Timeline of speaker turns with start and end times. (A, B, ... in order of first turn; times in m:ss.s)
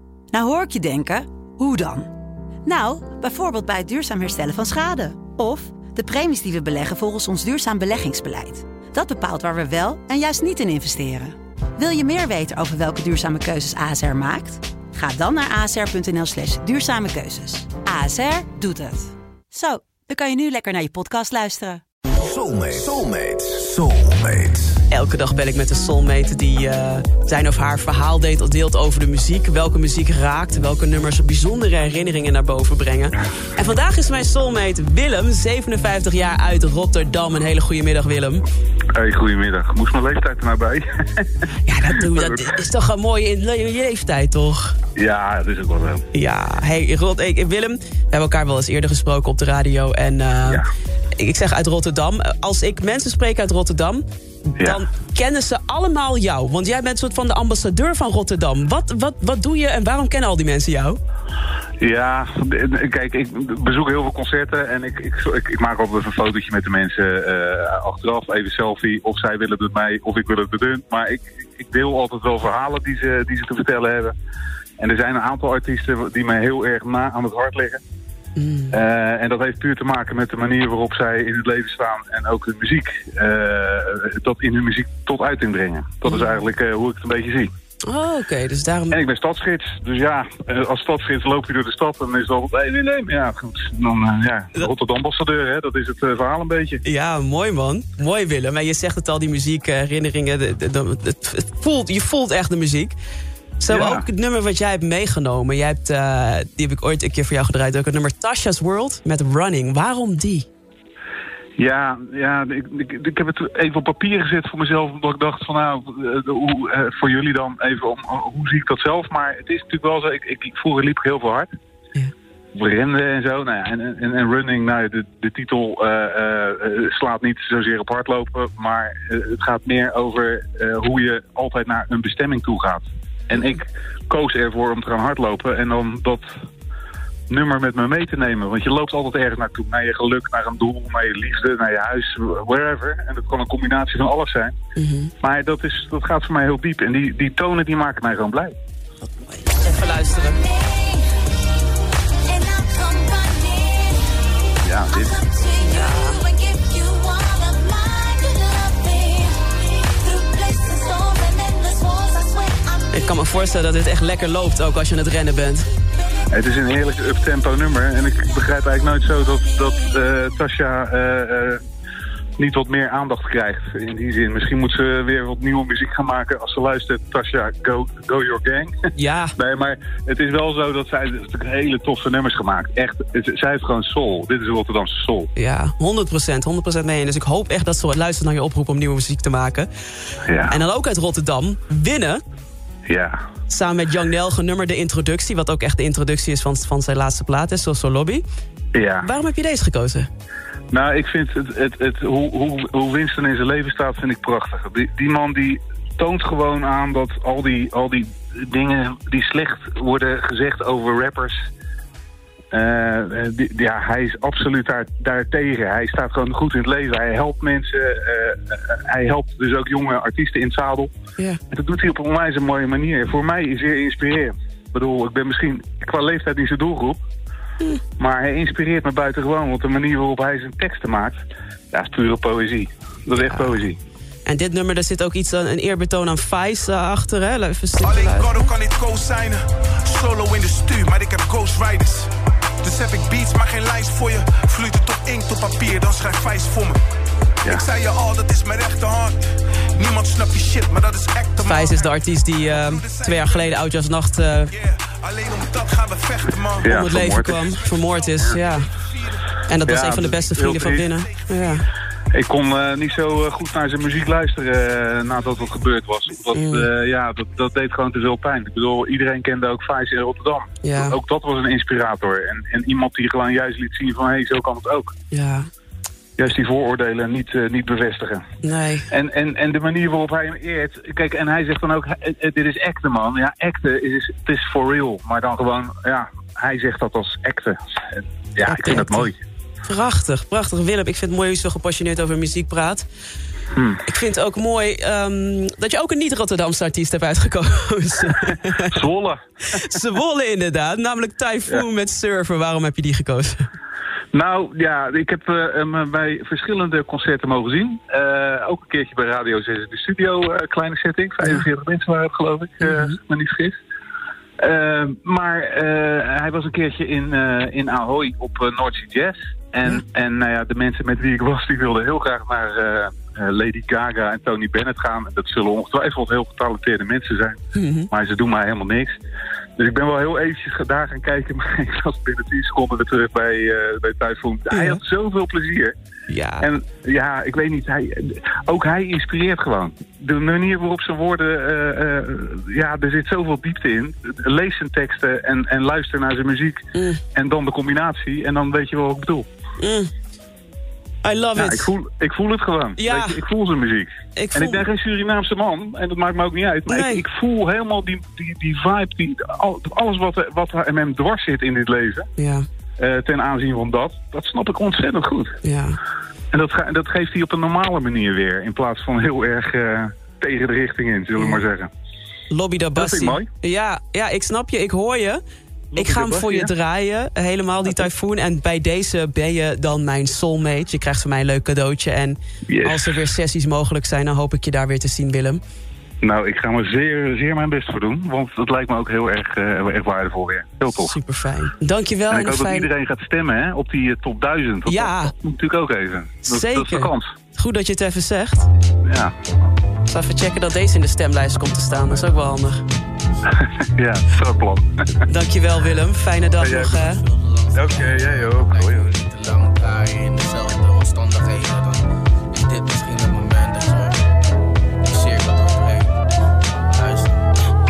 0:00.3-0:02.1 A
0:02.6-0:21.8 A
0:22.1-0:24.8 B
0:24.9-0:38.4 C
0:39.0-0:42.4 D
0:41.7-0:44.7 C
0:45.0-0:46.0 D
0:46.1-0:50.6 C
0:51.2-1:01.0 C
1:01.8-1:14.2 D
1:14.8-1:17.8 D
1:18.4-1:18.7 C
1:18.7-1:27.5 D
1:26.1-1:26.4 C
1:27.9-1:29.0 C
1:28.9-1:36.8 D
1:36.8-1:43.0 C
1:43.6-1:50.5 C
1:43.7-1:44.1 D
1:51.6-2:01.5 D
2:02.6-2:16.3 D
2:17.3-2:24.6 D
2:24.8-2:25.1 C
2:25.2-2:28.6 D
2:29.3-2:30.4 C
2:30.0-2:31.1 A
2:32.3-2:34.1 A
2:34.6-2:35.2 D
2:34.9-2:42.9 A
2:35.6-2:36.2 C
2:42.9-2:45.7 C
2:46.3-2:51.6 D
2:52.4-2:58.7 D
2:59.0-2:59.3 C
2:59.4-3:05.3 D
3:05.4-3:09.7 C
3:10.2-3:10.6 D
3:10.5-3:12.2 C
3:12.9-3:13.2 D
3:13.5-3:18.2 C
3:18.7-3:19.1 D
3:19.0-3:20.1 C
3:20.7-3:31.4 D
3:32.5-3:40.9 D
3:41.5-3:47.0 D
3:48.0-3:51.2 D
3:51.7-3:53.8 D
3:53.2-3:53.5 C
3:54.3-3:58.4 C
3:57.8-4:02.1 E
4:02.6-4:06.8 E
4:07.4-4:13.7 E
4:11.5-4:14.5 C
4:14.5-4:20.2 E
4:16.6-4:17.4 D
4:16.7-4:18.6 C
4:19.5-4:21.6 C
4:19.7-4:20.9 D
4:20.8-4:21.6 E
4:22.1-4:34.9 D
4:26.3-4:26.7 C
4:30.6-4:31.0 C
4:35.1-4:35.5 C
4:36.2-4:38.2 D
4:38.4-4:38.8 C
4:38.9-4:49.2 D
4:48.4-4:49.1 C
4:49.7-4:52.8 C
4:53.5-4:53.8 D
4:53.9-4:58.8 C
4:58.7-4:59.6 D
4:59.6-5:03.4 C
5:04.1-5:13.6 D
5:14.4-5:29.0 D
5:27.6-5:27.9 C
5:29.6-5:35.8 D
5:36.1-5:36.5 C
5:36.4-5:46.6 D
5:46.8-5:47.0 C
5:47.1-5:49.3 D
5:49.6-5:49.9 C
5:51.0-5:51.6 C
5:51.4-6:02.1 D
5:52.8-5:53.2 C
5:54.2-5:54.6 C
5:56.7-5:57.0 C
6:02.2-6:02.4 C
6:02.8-6:05.4 D
6:05.4-6:05.8 C
6:06.3-6:11.7 D
6:12.3-6:15.2 C
6:12.8-6:13.3 D
6:15.7-6:16.5 D
6:15.8-6:25.4 C
6:22.5-6:23.0 D
6:26.0-6:30.9 D
6:30.8-6:32.7 C
6:32.1-6:37.1 D
6:34.7-6:35.1 C
6:36.3-6:38.5 C
6:38.8-6:39.1 D
6:39.9-6:42.6 C
6:41.8-6:42.1 F
6:43.3-6:45.0 D
6:45.1-6:47.0 C
6:46.4-6:46.8 D
6:46.4-6:54.0 F
6:47.5-6:48.9 D
6:54.8-6:56.0 F
6:56.7-6:57.3 F